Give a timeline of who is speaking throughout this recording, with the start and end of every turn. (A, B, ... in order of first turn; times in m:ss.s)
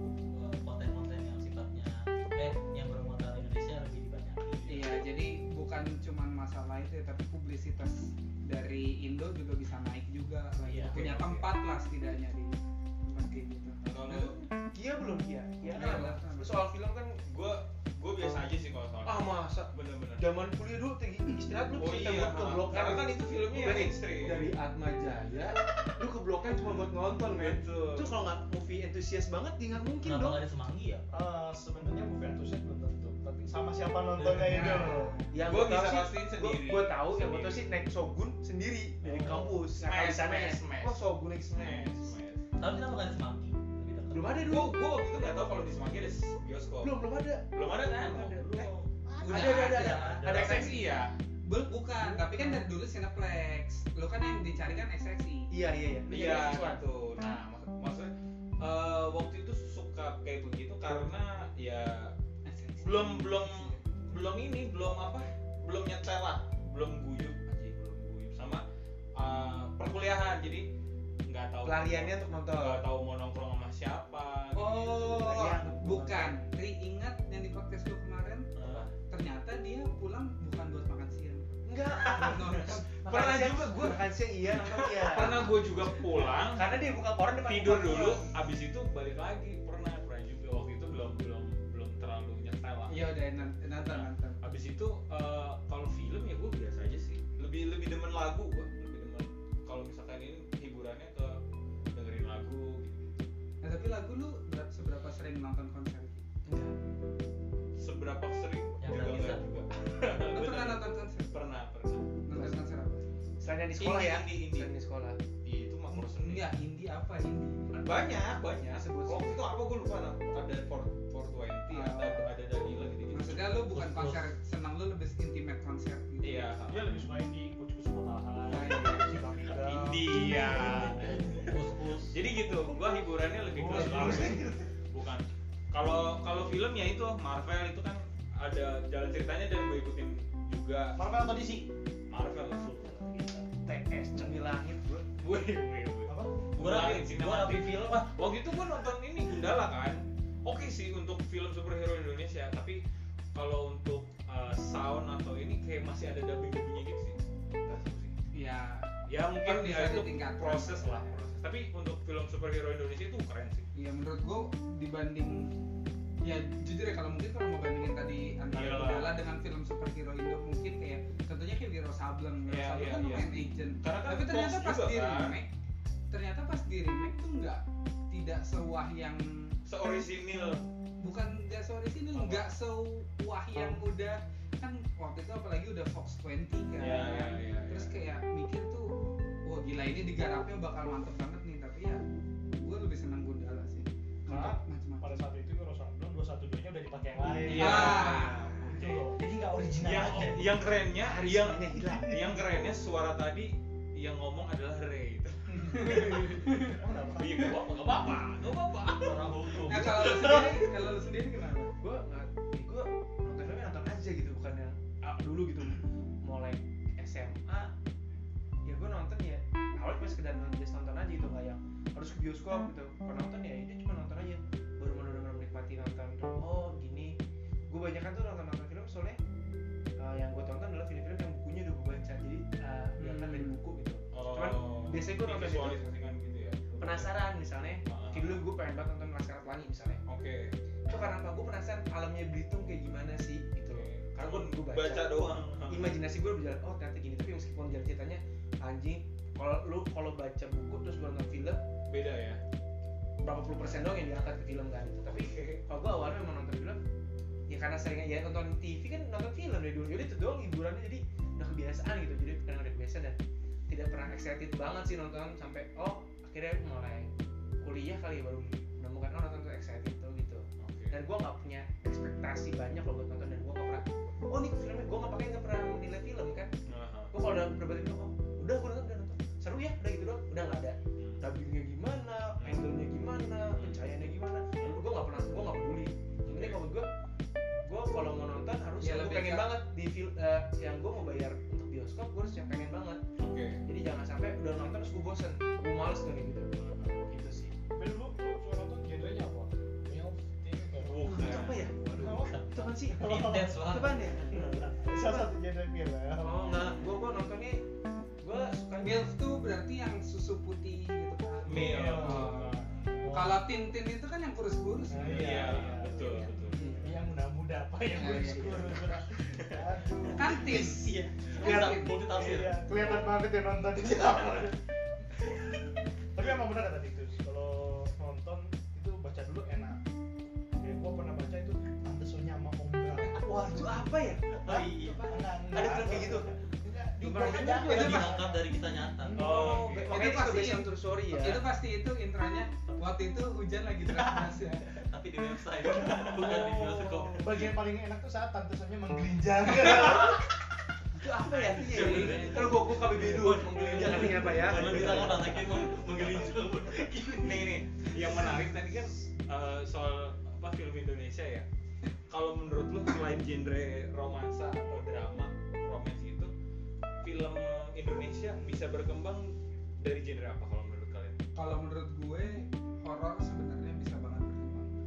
0:00.3-0:04.8 A
0:04.6-0:05.0 B
0:04.7-0:14.1 C
0:10.7-0:11.5 B
0:13.8-0:14.4 B
0:14.1-0:17.2 D
0:15.7-0:16.6 C
0:17.2-0:20.2 B
0:19.0-0:30.4 D
0:21.7-0:24.5 B
0:26.6-0:28.1 B
0:30.0-0:31.0 A
0:31.1-0:35.1 E
0:34.2-0:34.7 A
0:34.4-0:35.3 C
0:34.7-0:42.2 D
0:35.4-0:37.8 B
0:39.0-0:42.4 B
0:42.6-0:44.5 A
0:44.1-0:44.8 D
0:44.4-0:47.0 B
0:46.8-0:50.8 D
0:47.5-0:48.8 B
0:49.1-0:49.6 E
0:49.2-0:50.8 C
0:49.5-0:50.6 A
0:50.2-0:51.1 B
0:51.4-0:55.5 C
0:52.0-0:52.7 D
0:55.5-0:56.8 D
0:56.1-1:02.1 B
1:02.4-1:03.8 C
1:02.8-1:08.6 B
1:09.2-1:10.7 B
1:11.3-1:15.3 B
1:11.6-1:12.9 D
1:14.5-1:18.5 C
1:15.1-1:16.4 D
1:18.6-1:18.9 B
1:19.1-1:22.9 C
1:21.6-1:28.3 D
1:22.0-1:24.0 B
1:24.5-1:26.8 B
1:27.4-1:41.4 B
1:32.9-1:34.4 C
1:41.9-1:43.1 B
1:43.6-1:46.2 C
1:46.4-1:46.7 D
1:47.8-1:52.2 B
1:48.8-1:49.4 A
1:50.2-1:51.4 C
1:52.2-1:53.0 C
1:52.3-1:52.6 D
1:53.4-1:55.2 D
1:53.8-1:54.7 B
1:55.4-1:56.5 B
1:55.9-1:57.8 C
1:57.7-2:03.6 B
1:57.9-1:59.5 D
2:01.7-2:02.3 C
2:03.1-2:06.5 C
2:03.7-2:04.3 A
2:06.2-2:07.0 B
2:06.7-2:11.7 E
2:08.5-2:09.2 C
2:09.6-2:11.4 B
2:11.1-2:12.2 A
2:12.1-2:21.0 B
2:13.4-2:14.7 E
2:13.7-2:14.6 D
2:21.0-2:21.7 E
2:22.1-2:22.9 B
2:22.8-2:23.5 E
2:23.6-2:25.1 D
2:25.2-2:32.8 B
2:26.1-2:26.3 E
2:26.6-2:28.1 A
2:33.3-2:38.1 B
2:38.3-2:38.9 C
2:39.1-2:43.7 B
2:39.4-2:41.2 C
2:43.7-2:45.5 C
2:46.2-2:55.5 C
2:48.5-2:49.2 B
2:52.5-2:53.3 B
2:53.8-2:55.4 B
2:56.1-2:59.2 C
2:59.6-3:00.6 B
3:01.0-3:08.9 C
3:02.1-3:02.4 B
3:06.8-3:07.9 B
3:09.4-3:12.0 C
3:12.5-3:15.2 C
3:14.3-3:20.6 E
3:17.4-3:19.0 B
3:17.5-3:18.6 C
3:17.7-3:18.2 D
3:19.8-3:26.6 B
3:20.9-3:22.4 D
3:25.5-3:26.8 C
3:26.6-3:27.6 E
3:27.2-3:30.5 B
3:29.0-3:30.6 A
3:29.7-3:31.7 C
3:31.8-3:37.7 D
3:38.6-3:47.2 D
3:47.7-3:49.2 D
3:50.0-3:55.8 D
3:53.0-3:53.6 C
3:54.1-3:57.1 B
3:56.8-4:00.0 D
3:57.8-3:58.4 B
4:00.1-4:00.5 B
4:00.9-4:11.6 D
4:03.7-4:06.0 B
4:11.9-4:12.4 B
4:13.2-4:16.8 D
4:15.0-4:15.6 B
4:17.5-4:23.2 D
4:23.7-4:27.1 D
4:27.6-4:36.5 D
4:30.6-4:31.0 B
4:36.7-4:37.1 B
4:37.1-4:46.9 D
4:42.4-4:42.7 B
4:43.5-4:43.8 B
4:46.2-4:46.6 B
4:47.6-4:53.0 D
4:48.8-4:49.5 C
4:53.2-4:53.6 B
4:53.6-4:57.5 D
4:56.6-4:56.9 B
4:57.7-5:01.4 E
5:00.8-5:01.7 B
5:01.0-5:04.4 D
5:01.9-5:03.6 E
5:02.0-5:04.3 A
5:04.3-5:06.5 E
5:05.0-5:05.2 D
5:06.2-5:07.6 D
5:08.2-5:09.1 D
5:08.8-5:15.6 C
5:11.4-5:13.1 B
5:11.4-5:13.4 E
5:14.9-5:20.7 E
5:15.0-5:16.6 B
5:16.5-5:16.8 C
5:16.6-5:16.8 D
5:17.9-5:18.8 C
5:19.3-5:19.6 B
5:20.1-5:22.0 C
5:20.3-5:23.0 A
5:21.2-5:21.6 B
5:21.4-5:24.6 E
5:26.1-5:29.8 E
5:30.6-5:39.7 E
5:33.2-5:36.3 D
5:34.4-5:35.1 A
5:37.0-5:38.2 D
5:37.2-5:39.3 A
5:37.7-5:38.1 C
5:39.2-5:40.0 B
5:39.2-5:41.4 D
5:39.8-5:44.8 C
5:44.7-5:47.5 A
5:45.6-5:50.3 E
5:49.9-5:50.2 D
5:51.0-5:55.4 D
5:51.5-5:57.5 A
5:51.5-5:52.2 C
5:51.6-5:52.5 B
5:53.0-5:56.3 B
5:53.7-5:55.3 E
5:57.1-6:01.4 B
6:02.1-6:06.3 B
6:07.0-6:11.2 B
6:11.3-6:14.7 C